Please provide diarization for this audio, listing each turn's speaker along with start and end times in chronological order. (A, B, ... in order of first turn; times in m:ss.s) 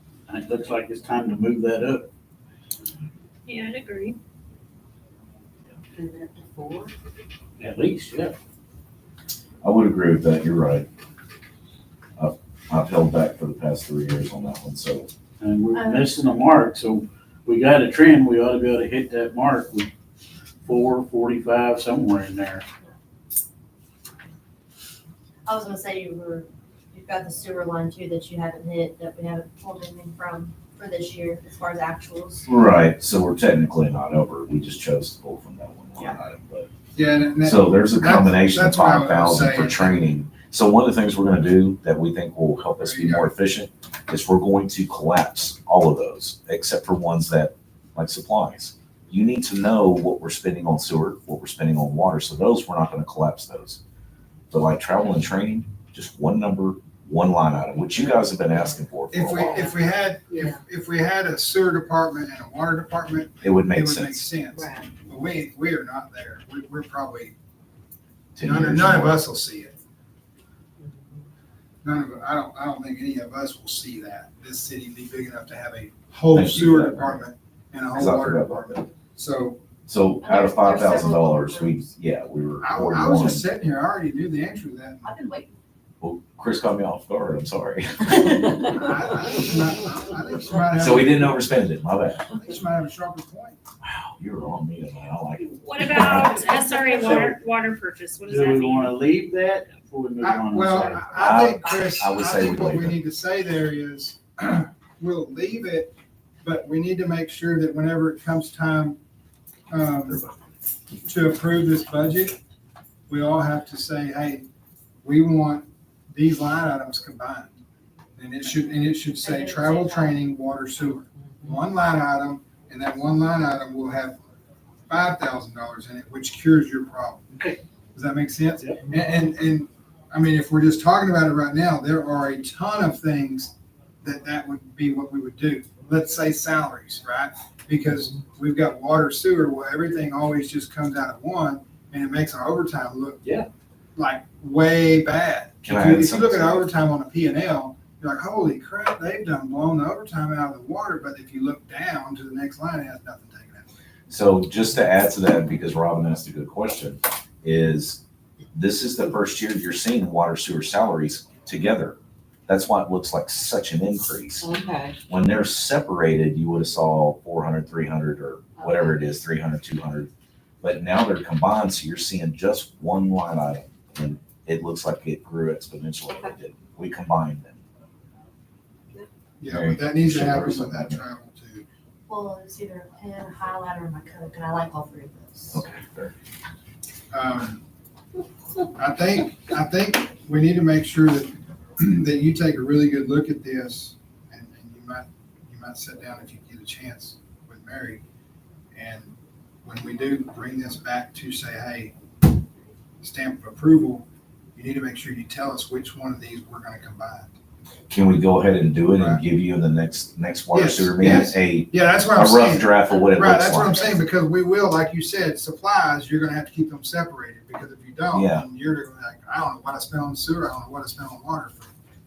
0:00.3-0:02.1 A
0:03.4-0:04.2 B
0:05.9-0:06.9 C
0:07.6-0:08.3 A
0:09.6-0:10.9 D
0:12.2-0:15.1 D
0:15.4-0:19.9 A
0:15.7-0:16.1 C
0:20.6-0:22.6 A
0:25.4-0:32.5 C
0:32.5-0:36.7 D
0:36.9-0:40.1 E
0:37.4-0:53.8 D
0:42.8-0:43.3 E
0:54.5-0:59.7 D
0:59.1-1:07.3 E
1:00.3-1:00.6 C
1:03.4-1:04.2 D
1:04.5-1:04.9 C
1:08.4-1:09.2 D
1:08.4-1:09.7 E
1:11.8-1:19.6 E
1:16.3-1:17.2 D
1:17.9-1:18.8 D
1:19.9-1:23.4 D
1:20.2-1:21.9 C
1:22.6-1:25.2 E
1:25.0-1:25.5 C
1:26.0-1:28.6 D
1:28.7-1:31.6 E
1:30.7-1:32.3 D
1:32.3-1:33.6 E
1:33.8-1:36.5 D
1:35.4-1:39.0 B
1:36.9-1:37.4 A
1:38.3-1:41.3 A
1:40.2-1:49.0 E
1:41.1-1:43.0 D
1:49.7-1:50.2 E
1:50.1-1:50.4 D
1:51.0-1:52.4 E
1:53.1-1:54.4 E
1:55.0-1:57.5 E
1:58.2-2:04.2 E
1:59.0-2:00.3 C
2:04.9-2:07.3 E
2:07.3-2:07.6 A
2:07.9-2:23.2 E
2:08.6-2:08.9 A
2:24.0-2:33.8 E
2:25.6-2:26.7 D
2:34.1-2:38.0 D
2:38.5-2:44.5 D
2:44.4-2:45.0 C
2:45.1-2:50.1 D
2:48.6-2:49.0 C
2:50.6-2:57.6 D
2:56.1-2:56.3 C
2:59.4-3:01.6 E
2:59.5-3:01.0 D
3:02.1-3:05.6 C
3:05.5-3:06.1 D
3:07.1-3:07.6 E
3:08.7-3:18.0 E
3:18.7-3:21.9 E
3:23.0-3:27.3 E
3:27.9-3:33.8 D
3:28.9-3:29.2 E
3:30.5-3:41.7 E
3:38.1-3:38.5 D